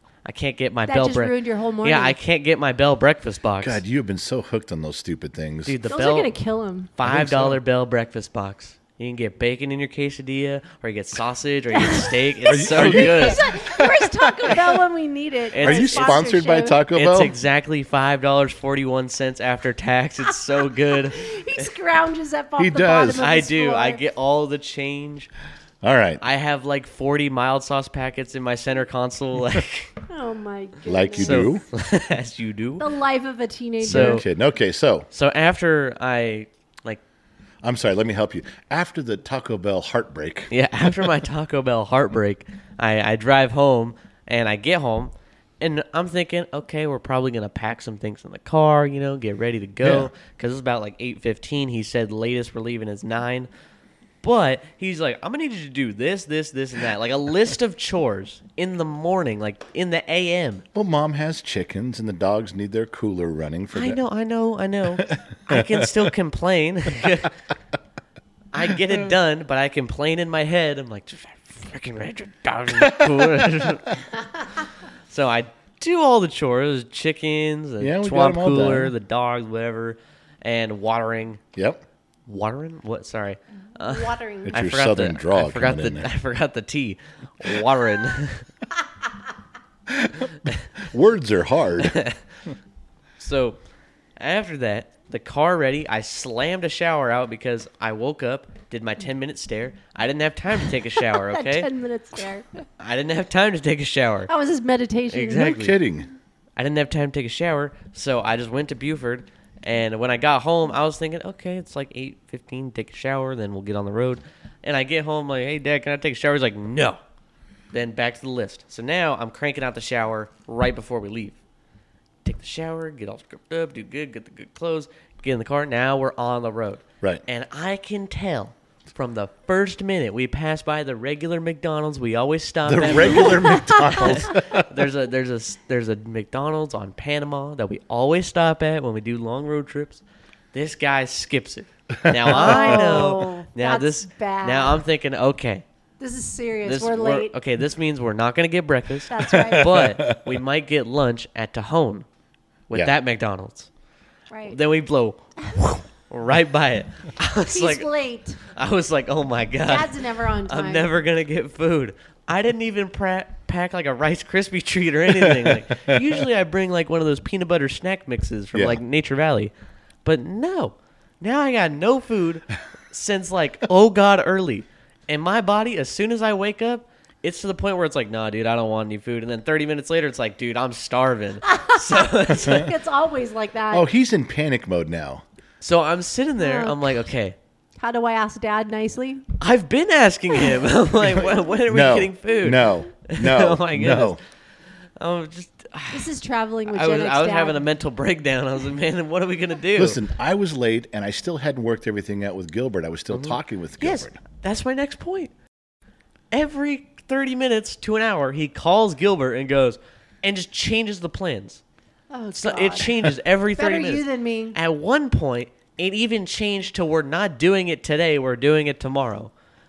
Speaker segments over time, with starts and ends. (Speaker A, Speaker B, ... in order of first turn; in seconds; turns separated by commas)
Speaker A: 0.2-3.8, Speaker B: 0.9-2.2, Speaker C: 3.6-5.9, Speaker A: 5.7-6.3, Speaker B: 5.9-6.9, Speaker A: 7.0-13.4, Speaker C: 7.0-7.6, Speaker B: 11.7-16.8, Speaker C: 12.5-14.8, Speaker A: 15.5-16.3, Speaker C: 15.6-17.4, Speaker A: 16.9-21.6, Speaker B: 21.1-24.0, Speaker C: 22.6-23.2, Speaker A: 23.1-25.3, Speaker C: 25.8-26.2, Speaker A: 26.2-29.9, Speaker B: 30.1-31.4, Speaker C: 30.9-31.6, Speaker A: 31.2-32.9, Speaker B: 32.8-34.2, Speaker A: 33.8-34.2, Speaker C: 33.9-35.1, Speaker A: 35.1-37.0, Speaker C: 37.6-40.5, Speaker A: 40.5-53.5, Speaker C: 49.8-50.1, Speaker A: 54.2-60.6, Speaker C: 60.7-64.0, Speaker A: 63.7-67.3, Speaker C: 65.0-66.1, Speaker A: 68.5-74.0, Speaker C: 72.8-74.0, Speaker A: 75.1-81.4, Speaker C: 77.8-78.9, Speaker C: 81.5-81.8, Speaker A: 82.3-88.5, Speaker B: 83.8-84.6, Speaker C: 84.5-86.1, Speaker C: 89.9-92.0, Speaker A: 91.8-92.2, Speaker A: 93.2-93.6, Speaker A: 94.2-101.7, Speaker B: 101.0-102.6, Speaker A: 102.8-104.3, Speaker B: 104.3-105.7, Speaker A: 105.1-105.8, Speaker C: 105.3-106.1, Speaker A: 106.5-117.0, Speaker A: 117.7-121.4, Speaker A: 122.2-145.6, Speaker C: 132.7-134.7, Speaker B: 133.5-133.8, Speaker C: 142.1-142.9, Speaker B: 142.2-144.8, Speaker B: 146.0-147.4, Speaker A: 146.7-152.0, Speaker B: 149.1-149.7, Speaker C: 149.3-150.4, Speaker A: 152.7-153.7, Speaker B: 154.3-154.6, Speaker A: 154.5-157.9, Speaker B: 157.4-158.4, Speaker A: 158.5-169.5, Speaker B: 159.6-160.9, Speaker C: 165.2-166.0, Speaker C: 168.5-168.8, Speaker A: 170.0-182.7, Speaker B: 181.5-183.9, Speaker C: 182.4-182.7, Speaker C: 183.7-185.2, Speaker A: 185.6-187.3, Speaker B: 186.4-186.9, Speaker B: 187.8-189.2, Speaker A: 189.4-194.2, Speaker C: 191.0-194.2, Speaker A: 195.0-196.1, Speaker B: 195.9-197.6, Speaker A: 196.7-200.0, Speaker C: 199.8-204.2, Speaker A: 203.1-205.3, Speaker A: 206.3-211.6, Speaker B: 212.1-214.6, Speaker A: 212.3-219.3